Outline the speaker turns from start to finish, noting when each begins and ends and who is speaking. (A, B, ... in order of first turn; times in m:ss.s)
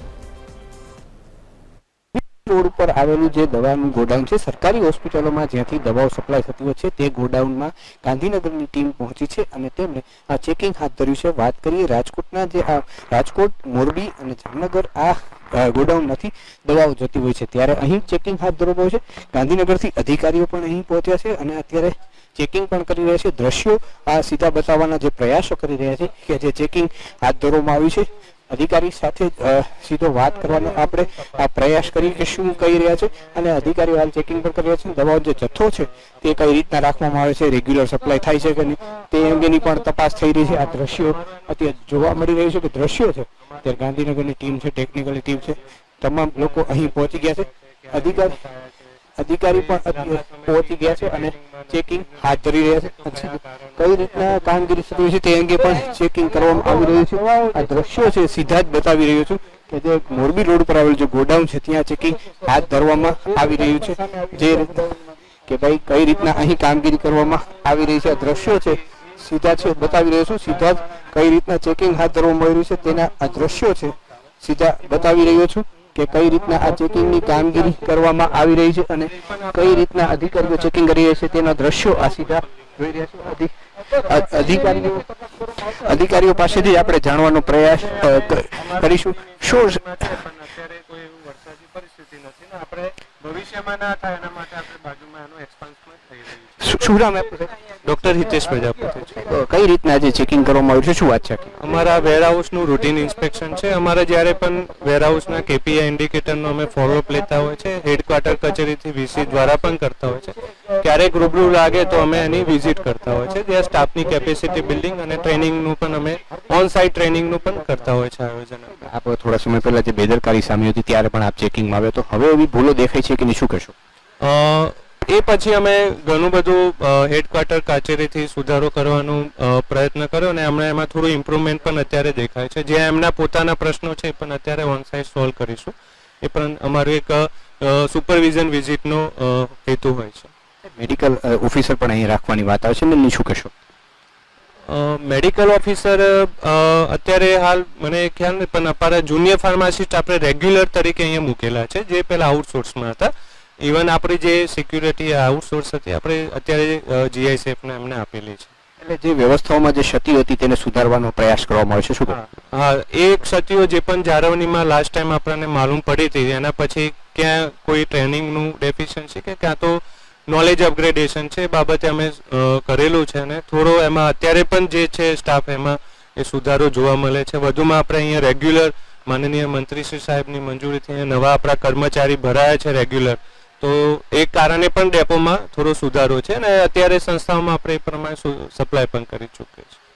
0:02.1-0:48.4 A
0:40.8-0:41.4 B
0:43.5-0:44.0 B
0:46.4-0:48.7 B
0:49.2-1:04.9 A
0:49.4-0:54.6 B
1:05.5-1:25.1 A
1:19.2-1:20.6 B
1:21.7-1:22.7 B
1:25.6-1:29.8 A
1:27.9-1:36.6 B
1:36.6-1:37.5 A
1:37.8-1:39.2 B
1:39.2-1:41.6 A
1:41.6-1:58.7 B
1:58.8-2:03.7 A
2:04.2-2:20.3 B
2:20.8-2:23.5 A
2:24.7-2:33.1 B
2:33.6-2:38.5 B
2:38.8-2:42.2 A
2:42.1-3:09.8 B